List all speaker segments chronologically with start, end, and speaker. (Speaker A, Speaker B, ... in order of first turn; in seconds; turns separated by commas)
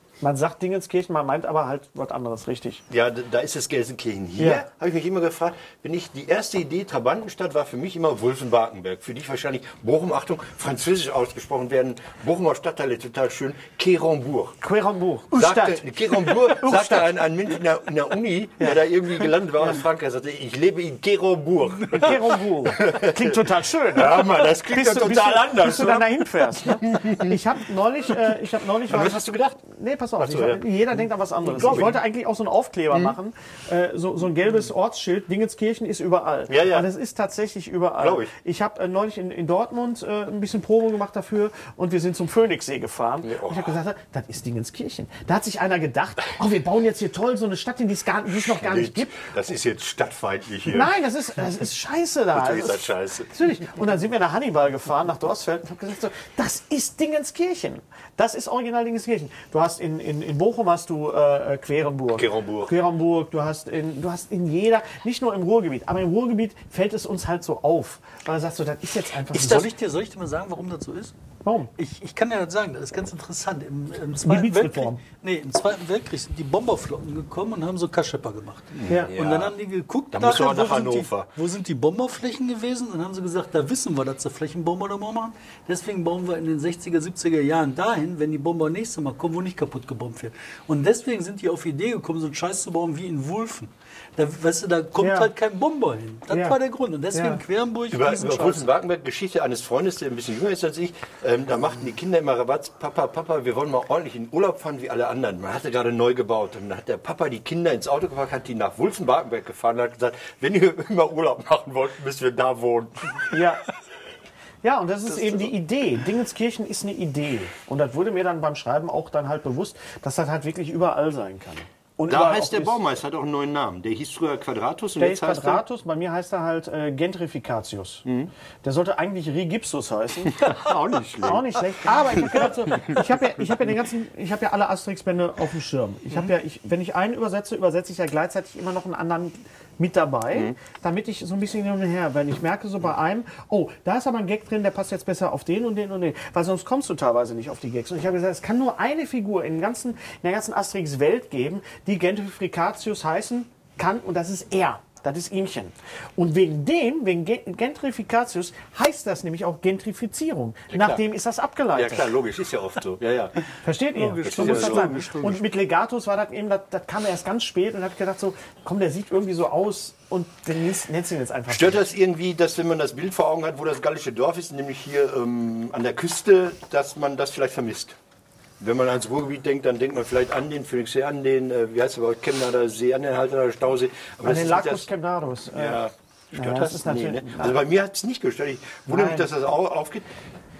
Speaker A: 0.2-2.8, Speaker B: 2.9-14.6, Speaker A: 4.4-4.7, Speaker A: 14.6-17.1, Speaker B: 15.3-27.4, Speaker A: 18.6-18.9, Speaker A: 21.9-49.3, Speaker B: 28.9-29.6, Speaker B: 30.2-32.0, Speaker B: 36.5-36.9, Speaker B: 38.0-38.3, Speaker B: 43.2-43.7, Speaker B: 48.3-50.9, Speaker A: 50.7-69.7, Speaker B: 52.3-53.3, Speaker B: 62.1-62.7, Speaker C: 69.3-71.1, Speaker A: 71.4-71.7, Speaker C: 71.8-98.7, Speaker A: 74.2-75.0, Speaker B: 78.7-79.5, Speaker A: 78.8-79.1, Speaker B: 80.1-81.3, Speaker A: 95.0-95.3, Speaker A: 96.3-96.6, Speaker A: 97.1-97.4, Speaker B: 97.9-113.4, Speaker A: 113.3-113.6, Speaker A: 114.6-122.8, Speaker B: 122.1-125.6, Speaker A: 125.0-128.0, Speaker B: 128.0-128.3, Speaker A: 128.6-130.5, Speaker B: 130.2-131.5, Speaker A: 131.2-162.1, Speaker B: 132.2-133.0, Speaker B: 160.7-161.0, Speaker B: 161.7-163.4, Speaker A: 163.6-171.8, Speaker C: 163.9-165.5, Speaker B: 164.2-165.0, Speaker B: 171.5-178.0, Speaker B: 178.6-184.9, Speaker A: 184.2-187.6, Speaker B: 185.5-190.1, Speaker A: 188.9-189.3